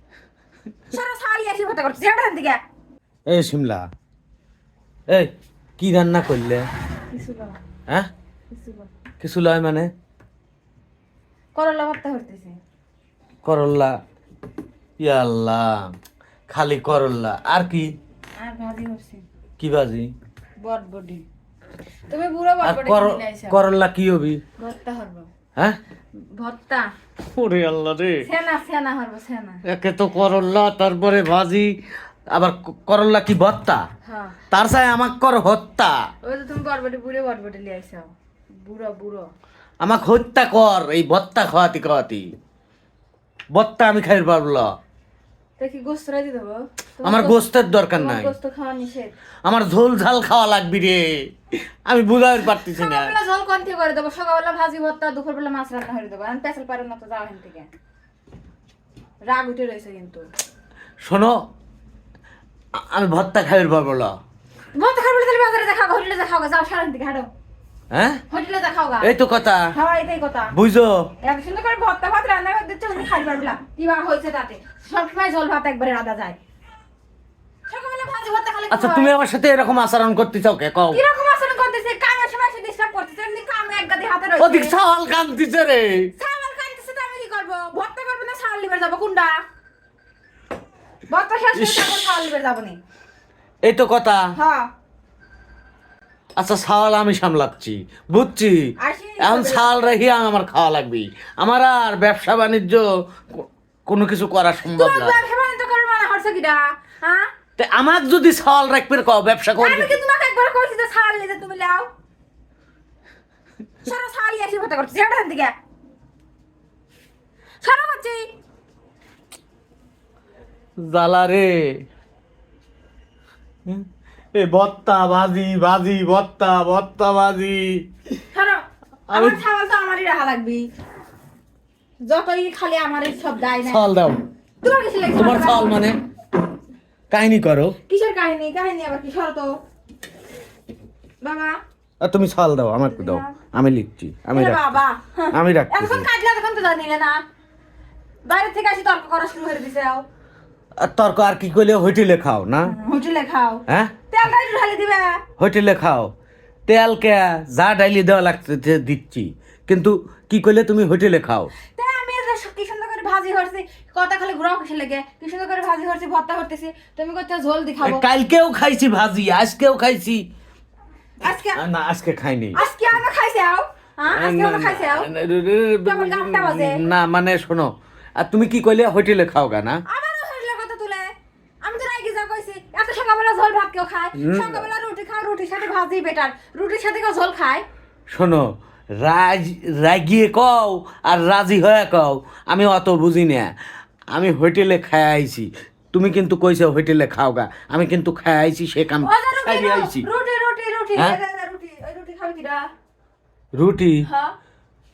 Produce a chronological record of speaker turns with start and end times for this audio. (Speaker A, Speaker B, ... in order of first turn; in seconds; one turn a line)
Speaker A: 0.9-2.6
Speaker B: 3.3-3.9
Speaker B: 5.1-6.7
Speaker A: 7.1-7.6
Speaker A: 8.5-8.9
Speaker B: 9.2-9.9
Speaker A: 11.5-12.6
Speaker B: 13.4-13.9
Speaker B: 15.0-15.9
Speaker B: 16.5-17.9
Speaker A: 18.4-19.2
Speaker B: 19.6-20.1
Speaker A: 20.6-21.2
Speaker A: 22.1-23.6
Speaker B: 22.6-24.4
Speaker A: 24.6-25.3
Speaker A: 26.4-26.9
Speaker B: 27.2-28.3
Speaker A: 28.2-29.6
Speaker B: 29.6-31.7
Speaker B: 32.3-33.8
Speaker A: 34.0-34.4
Speaker B: 34.5-36.0
Speaker A: 36.2-39.3
Speaker B: 39.8-42.3
Speaker B: 43.5-44.7
Speaker A: 45.6-49.1
Speaker B: 47.0-48.3
Speaker B: 49.5-51.3
Speaker B: 51.9-53.1
Speaker A: 52.5-57.7
Speaker A: 59.2-60.3
Speaker B: 61.0-61.4
Speaker B: 62.8-64.1
Speaker A: 64.7-67.3
Speaker B: 67.9-68.2
Speaker A: 68.3-69.1
Speaker B: 69.0-69.7
Speaker A: 69.7-70.5
Speaker B: 70.5-71.1
Speaker A: 71.2-76.4
Speaker A: 77.7-79.1
Speaker B: 78.7-81.0
Speaker A: 80.9-84.7
Speaker B: 84.4-86.1
Speaker A: 86.2-89.4
Speaker A: 91.1-92.8
Speaker B: 91.5-92.2
Speaker B: 93.6-94.2
Speaker A: 94.4-94.7
Speaker B: 96.4-105.2
Speaker A: 98.8-99.7
Speaker A: 104.7-107.3
Speaker B: 107.6-110.0
Speaker A: 109.6-111.9
Speaker A: 113.8-115.5
Speaker A: 117.6-118.3
Speaker B: 120.8-121.8
Speaker B: 124.3-127.8
Speaker A: 128.3-130.7
Speaker B: 129.1-129.4
Speaker A: 132.0-133.8
Speaker B: 133.6-134.2
Speaker A: 134.6-135.8
Speaker B: 135.2-136.0
Speaker B: 137.1-137.8
Speaker A: 137.9-139.6
Speaker A: 141.2-141.6
Speaker B: 142.0-144.7
Speaker A: 142.9-143.3
Speaker A: 144.3-147.2
Speaker B: 145.3-146.1
Speaker A: 148.2-150.1
Speaker B: 150.8-152.7
Speaker A: 152.6-155.2
Speaker B: 153.7-153.9
Speaker B: 155.4-156.1
Speaker B: 156.7-161.5
Speaker A: 161.7-168.0
Speaker B: 167.8-170.2
Speaker A: 171.2-171.6
Speaker B: 171.5-172.6
Speaker A: 172.5-175.1
Speaker B: 174.1-179.8
Speaker A: 175.8-176.8
Speaker A: 179.9-181.1
Speaker A: 181.6-187.6
Speaker B: 184.2-184.7
Speaker B: 188.1-188.5
Speaker B: 189.0-193.5
Speaker B: 194.1-200.1
Speaker A: 199.0-202.7
Speaker B: 203.6-204.0
Speaker A: 204.0-204.3